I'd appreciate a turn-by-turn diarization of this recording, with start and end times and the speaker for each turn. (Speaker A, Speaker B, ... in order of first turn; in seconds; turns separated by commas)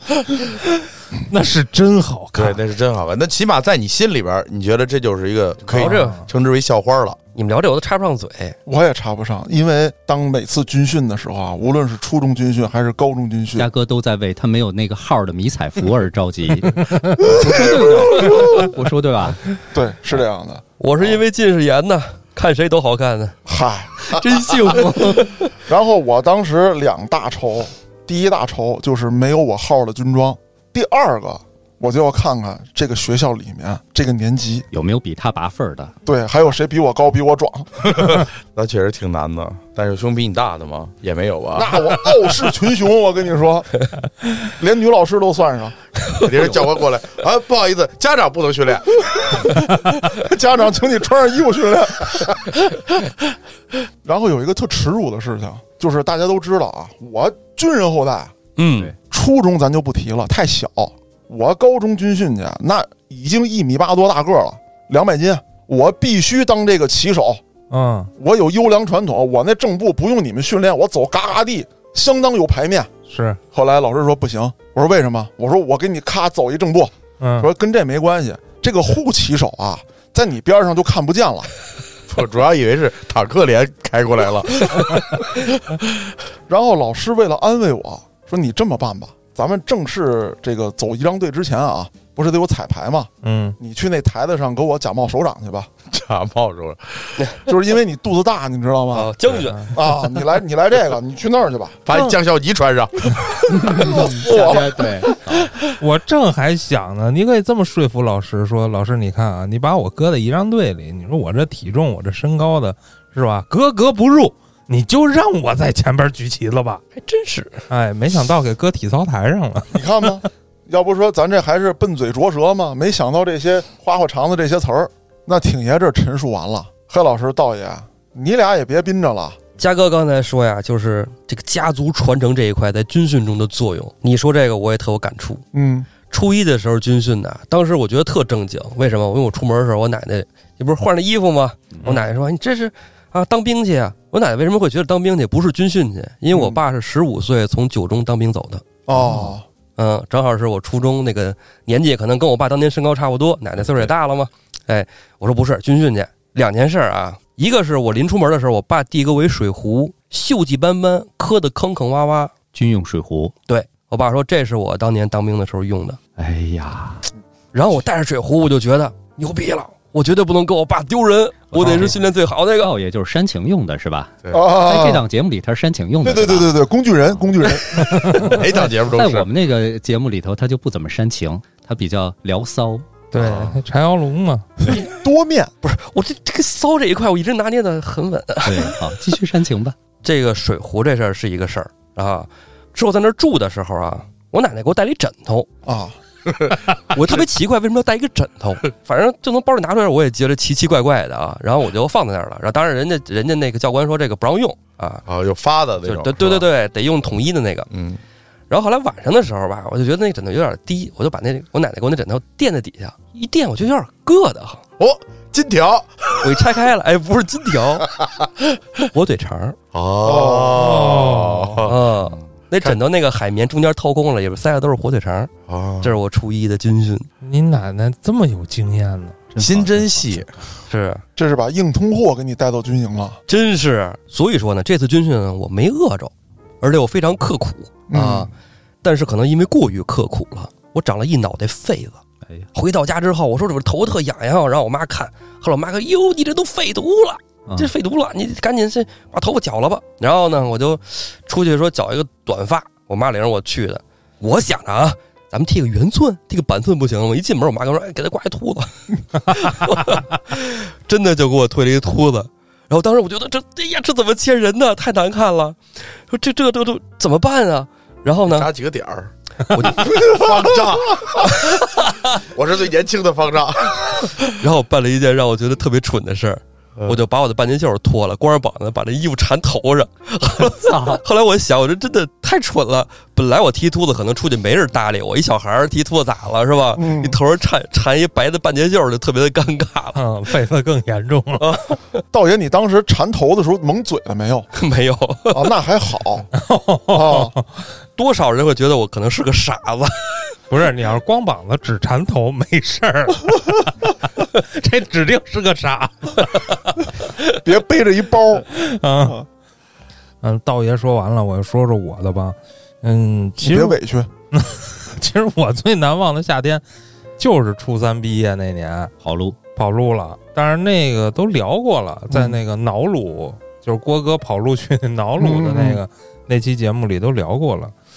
Speaker A: 1.3-2.6, Speaker B: 2.3-7.2, Speaker C: 5.7-6.2, Speaker A: 5.8-6.2, Speaker C: 7.3-8.6, Speaker D: 8.7-13.7, Speaker E: 13.6-19.4, Speaker A: 16.9-17.3, Speaker D: 17.4-18.2, Speaker D: 19.7-20.6, Speaker C: 20.8-23.4, Speaker D: 23.4-24.9, Speaker C: 24.0-25.5, Speaker D: 25.7-34.7, Speaker E: 34.7-35.9, Speaker D: 36.0-38.0, Speaker B: 37.9-41.8, Speaker D: 41.5-43.7, Speaker D: 44.4-45.8, Speaker B: 46.2-49.0, Speaker D: 49.3-52.4, Speaker D: 54.0-58.3, Speaker C: 58.6-58.9, Speaker D: 59.1-67.4, Speaker A: 67.7-68.1, Speaker D: 68.2-72.9, Speaker A: 73.0-73.4, Speaker D: 73.5-81.5, Speaker A: 77.2-77.5, Speaker B: 82.1-85.8, Speaker D: 86.5-95.7, Speaker A: 93.2-93.6, Speaker B: 95.9-97.2, Speaker D: 97.5-99.2, Speaker C: 98.9-99.8, Speaker A: 99.5-99.7, Speaker D: 99.7-101.8, Speaker B: 101.8-104.5, Speaker A: 101.9-102.2, Speaker E: 103.5-105.5, Speaker D: 103.7-104.9, Speaker A: 105.8-116.8, Speaker C: 116.9-117.6, Speaker A: 117.7-119.7, Speaker D: 119.7-129.4, Speaker C: 129.6-135.4, Speaker D: 135.5-135.9, Speaker C: 136.1-148.6, Speaker D: 146.3-146.6, Speaker D: 148.9-149.4, Speaker C: 149.8-162.3, Speaker E: 162.5-163.3, Speaker C: 163.5-166.0, Speaker E: 166.2-167.0, Speaker C: 167.5-172.7, Speaker E: 171.5-171.9, Speaker A: 171.6-171.9, Speaker E: 172.6-176.6, Speaker D: 174.3-175.0, Speaker D: 176.0-178.2, Speaker E: 178.1-182.8, Speaker B: 178.1-179.3, Speaker A: 183.1-184.5, Speaker B: 183.2-183.6, Speaker D: 184.6-185.5, Speaker C: 185.6-188.8, Speaker E: 188.4-189.7, Speaker C: 190.0-195.5, Speaker D: 195.6-196.0, Speaker B: 196.3-196.6, Speaker C: 196.9-205.0, Speaker B: 205.1-206.5, Speaker C: 205.8-207.7, Speaker B: 207.7-208.0, Speaker C: 208.5-214.6, Speaker B: 214.8-216.3, Speaker C: 216.2-217.9, Speaker C: 218.9-219.6, Speaker B: 219.7-222.1, Speaker D: 220.0-220.7, Speaker A: 220.5-221.7, Speaker C: 221.7-227.1, Speaker B: 225.5-225.9, Speaker A: 227.2-229.2, Speaker E: 229.3-230.3, Speaker B: 229.4-230.3, Speaker C: 230.7-231.0, Speaker D: 231.2-233.2, Speaker C: 233.3-238.2, Speaker D: 237.9-238.3, Speaker C: 238.8-242.0, Speaker C: 242.5-268.5, Speaker B: 268.3-271.6, Speaker C: 269.5-270.2, Speaker B: 272.1-273.8, Speaker C: 274.2-290.0, Speaker E: 280.6-281.0, Speaker D: 286.8-287.2, Speaker A: 289.9-291.5, Speaker C: 291.4-291.8, Speaker D: 292.1-294.5, Speaker C: 294.5-295.5, Speaker D: 295.3-296.3, Speaker A: 296.3-297.4, Speaker D: 296.9-297.3, Speaker C: 298.0-300.3, Speaker A: 300.5-306.8, Speaker D: 307.4-308.5, Speaker A: 308.5-309.2, Speaker A: 310.2-313.8, Speaker D: 313.4-314.1, Speaker A: 314.3-316.6, Speaker A: 317.2-318.9, Speaker E: 319.0-319.4, Speaker A: 319.5-327.7, Speaker D: 325.2-325.8